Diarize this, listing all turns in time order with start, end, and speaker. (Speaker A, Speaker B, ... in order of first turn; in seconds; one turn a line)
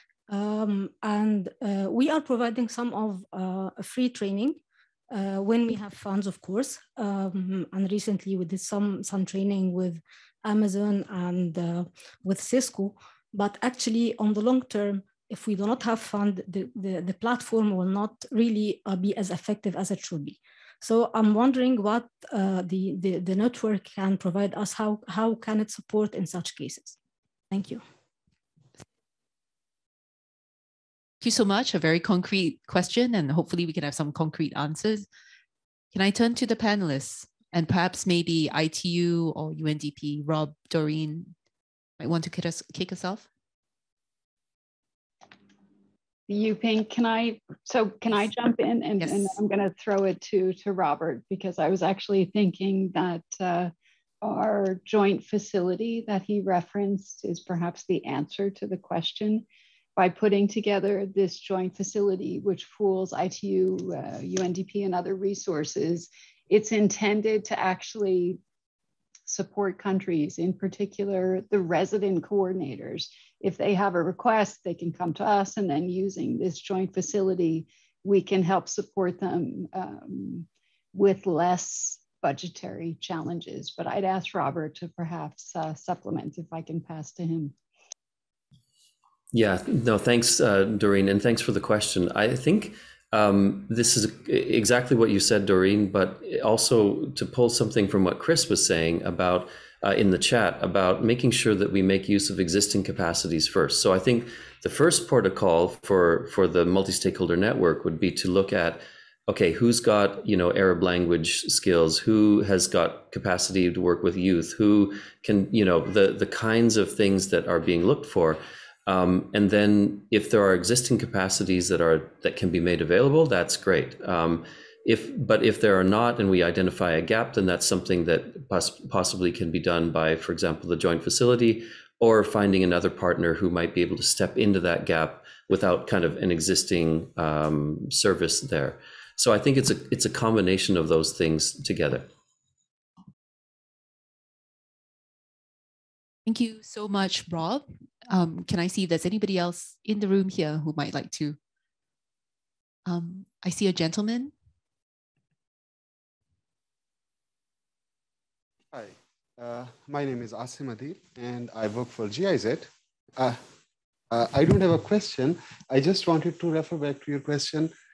Speaker A: 0.3-4.6
Speaker A: 5.1-27.0
Speaker A: 27.5-27.8
Speaker B: 31.2-35.0
Speaker B: 35.9-41.3
Speaker B: 42.0-43.2
Speaker C: 46.3-59.4
Speaker B: 49.0-49.4
Speaker C: 60.0-68.4
Speaker C: 69.2-87.5
Speaker D: 89.3-142.1
Speaker B: 146.2-151.4
Speaker B: 152.8-154.3
Speaker E: 158.7-163.4
Speaker E: 164.1-167.7